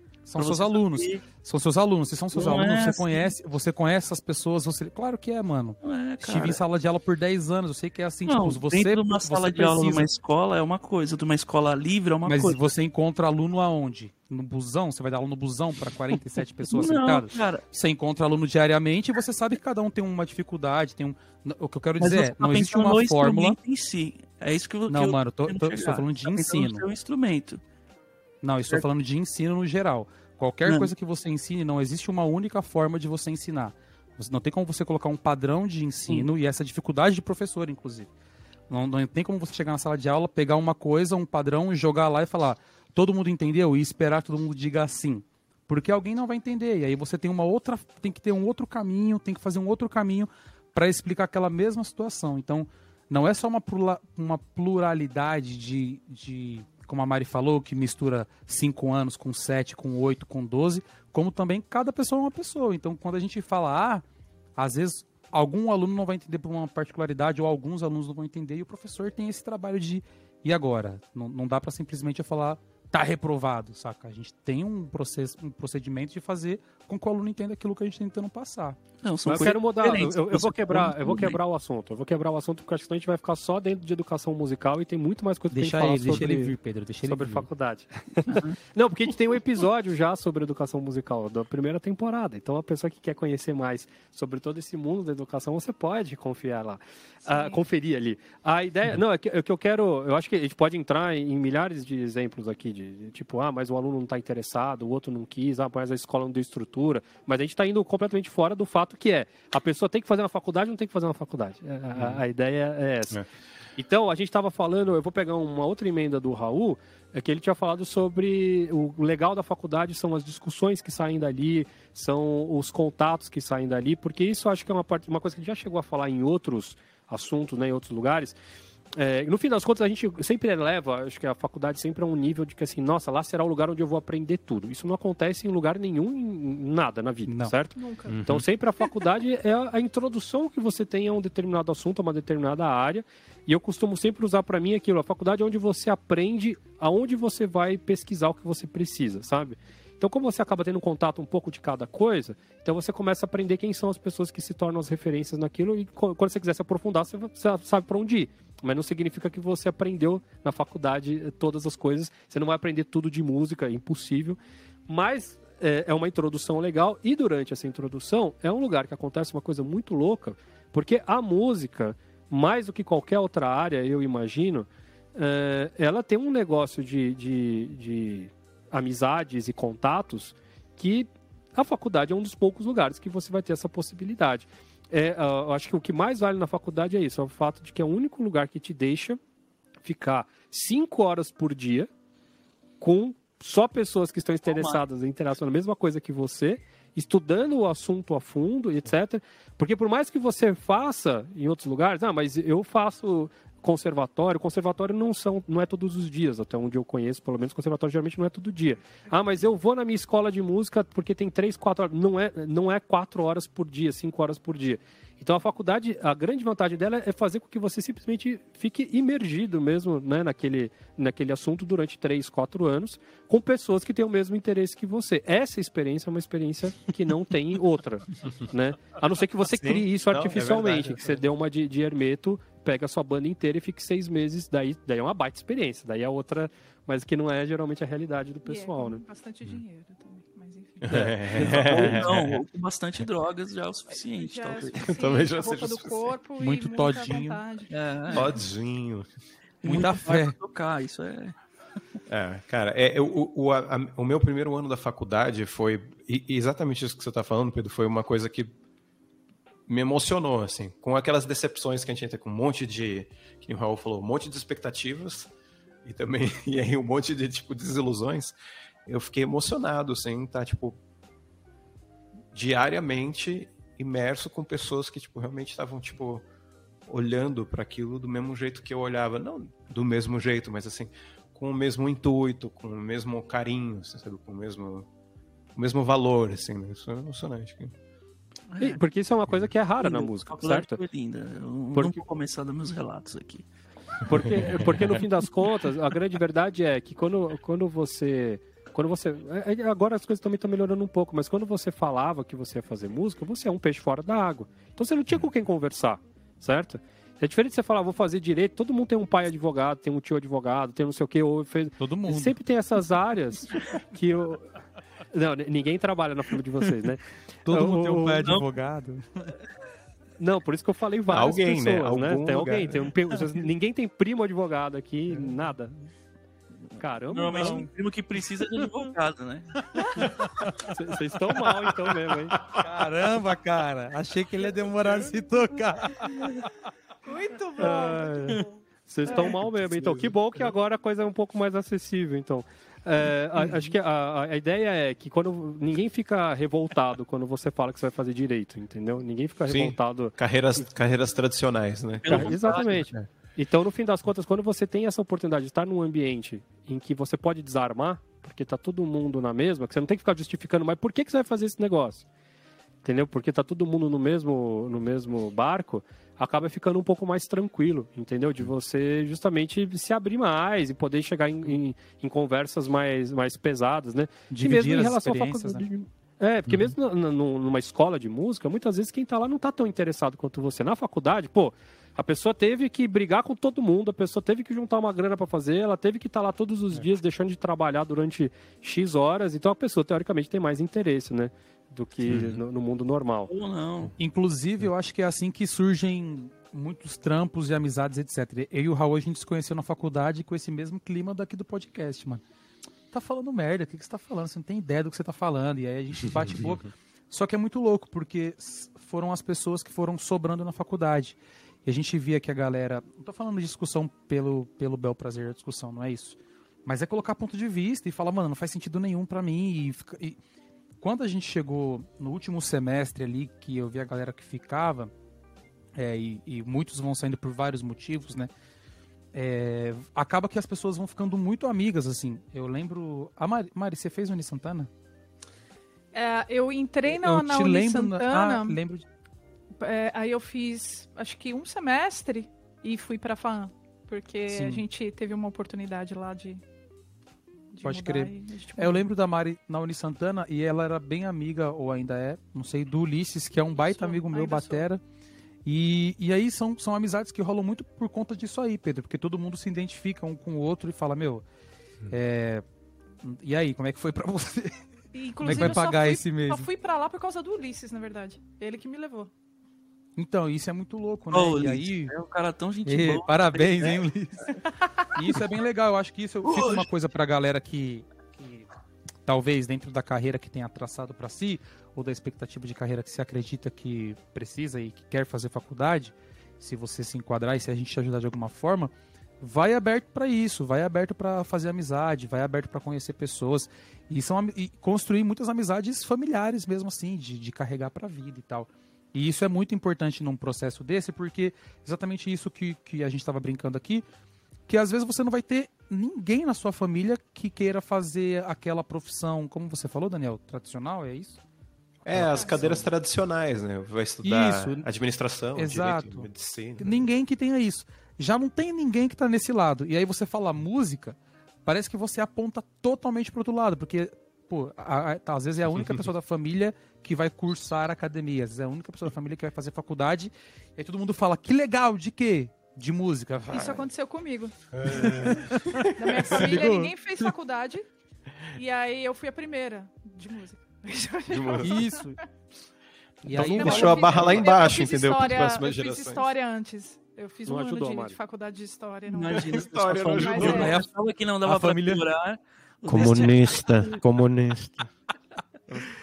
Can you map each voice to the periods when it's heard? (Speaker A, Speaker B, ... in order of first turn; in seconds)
Speaker A: 0.2-10.1, 12.3-23.6, 24.9-26.9, 28.4-38.1, 38.7-64.0, 64.6-79.5, 85.5-87.5, 137.3-137.5, 246.4-247.4, 249.7-250.4, 311.8-312.4, 317.4-319.3, 327.4-327.7, 329.8-330.7, 332.5-336.5, 374.3-375.6, 394.0-402.2, 402.9-420.2, 420.8-424.9, 425.8-428.3, 429.1-434.7, 436.9-438.9, 444.3-444.6, 447.6-454.8, 455.4-461.2, 461.9-462.4, 463.0-464.6, 465.2-466.5, 470.0-471.9, 472.6-474.4, 474.9-478.5, 479.1-503.8, 504.5-511.2, 511.9-512.7, 514.0-514.7, 515.4-516.1, 516.6-533.6, 534.7-536.8, 541.4-542.0, 543.0-544.3, 550.1-550.7, 551.2-551.8
Speaker B: 0.4-1.2, 2.3-3.3, 5.8-6.6, 8.3-12.7, 16.7-17.6, 22.0-27.6, 30.7-30.9, 79.0-81.4, 88.3-88.6, 194.5-194.8, 241.3-244.8, 247.7-248.3, 249.6-251.4, 288.5-288.8, 289.8-293.5, 327.0-330.3, 352.0-352.7, 393.3-393.9, 471.1-473.9, 476.2-476.7, 548.9-553.8
Speaker C: 79.3-86.5, 87.1-113.2, 113.8-128.3, 128.9-189.2, 189.8-191.9, 192.8-239.0, 240.9-241.9, 288.6-290.8, 291.8-292.0, 294.1-314.5, 315.1-318.3, 320.2-325.8, 326.8-327.7, 330.6-332.4, 337.6-350.7, 352.1-362.1, 362.8-393.3, 547.3-548.0
Speaker D: 97.3-97.6, 137.8-138.2, 238.4-241.0, 243.9-248.3, 337.1-338.5, 339.1-339.4, 435.9-438.6, 439.6-446.4, 447.5-448.9, 453.5-454.7, 464.9-469.1, 474.6-474.9, 512.1-512.4, 533.3-535.2, 535.8-537.7, 538.3-541.9, 543.2-550.6
Speaker E: 112.0-112.2, 138.1-138.4, 229.5-231.2, 240.8-242.4, 244.6-246.1, 248.1-249.1, 252.1-258.5, 259.7-265.3, 265.8-268.3, 268.9-270.8, 272.3-276.2, 276.9-284.9, 285.6-287.7, 294.1-294.7, 321.1-322.9, 339.5-340.4, 349.5-353.1, 376.5-376.7, 392.1-392.4, 511.9-516.9, 534.5-536.1, 541.1-541.6, 543.1-546.1, 549.3-550.5, 552.7-554.7